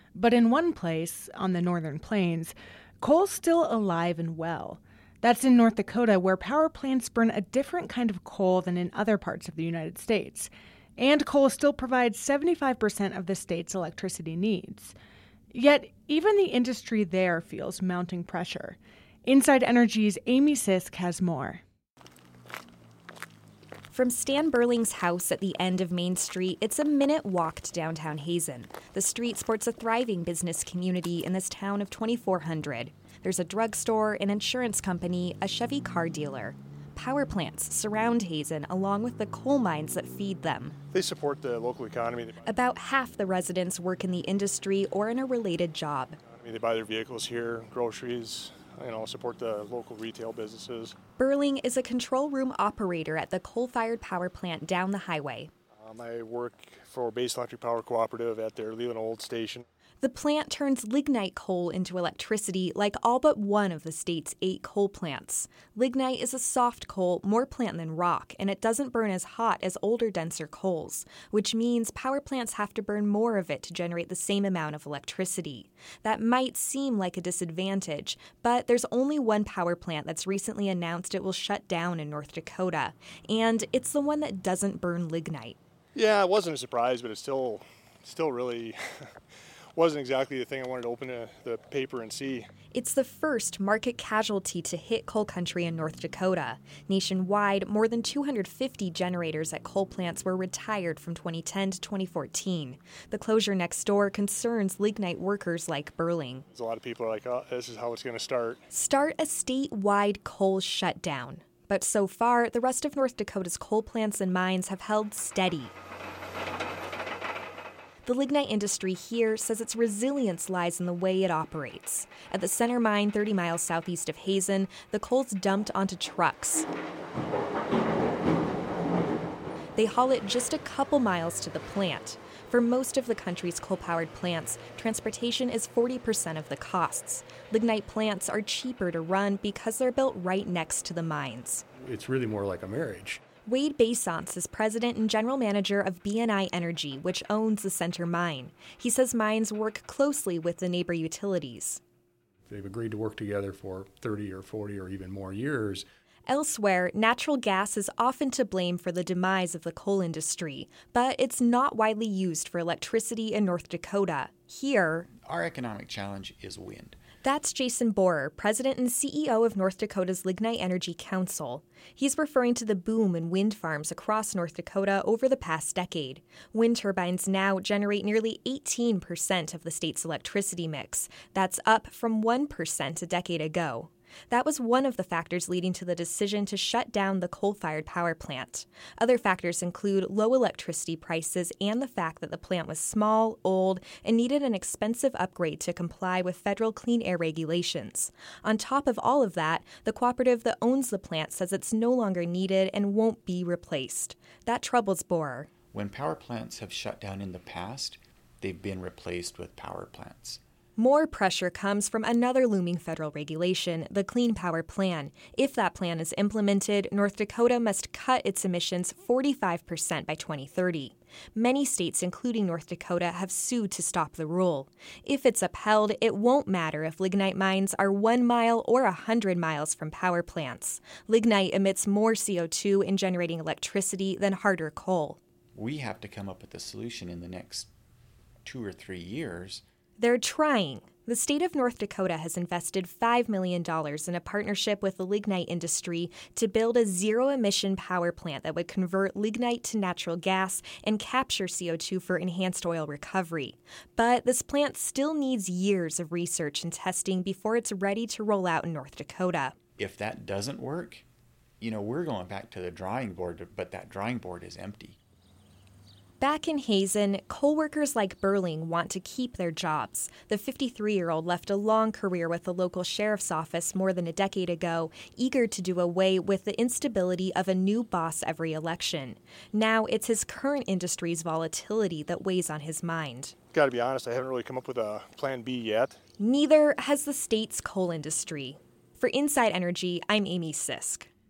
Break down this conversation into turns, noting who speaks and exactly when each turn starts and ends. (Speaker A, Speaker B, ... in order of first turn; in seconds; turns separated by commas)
Speaker A: 0.1-14.9, Speaker A: 15.5-21.6, Speaker B: 23.9-40.8, Speaker C: 40.9-42.5, Speaker B: 42.5-46.2, Speaker C: 46.2-51.0, Speaker B: 51.2-55.5, Speaker C: 55.8-59.6, Speaker B: 60.0-85.6, Speaker C: 85.9-89.2, Speaker C: 89.7-92.5, Speaker B: 92.7-106.4, Speaker C: 106.5-108.6, Speaker B: 108.7-115.7, Speaker B: 118.0-126.7, Speaker B: 129.8-141.6, Speaker D: 141.8-143.2, Speaker B: 143.4-151.8, Speaker D: 152.5-155.8, Speaker B: 156.3-165.1, Speaker E: 165.2-167.0, Speaker B: 167.2-205.5, Speaker E: 205.7-210.4, Speaker B: 210.8-235.2, Speaker E: 235.5-237.7, Speaker E: 238.4-239.6, Speaker B: 240.0-259.6, Speaker E: 259.8-261.1, Speaker E: 261.6-265.0, Speaker B: 266.2-283.4, Speaker C: 283.5-286.0, Speaker B: 286.2-291.1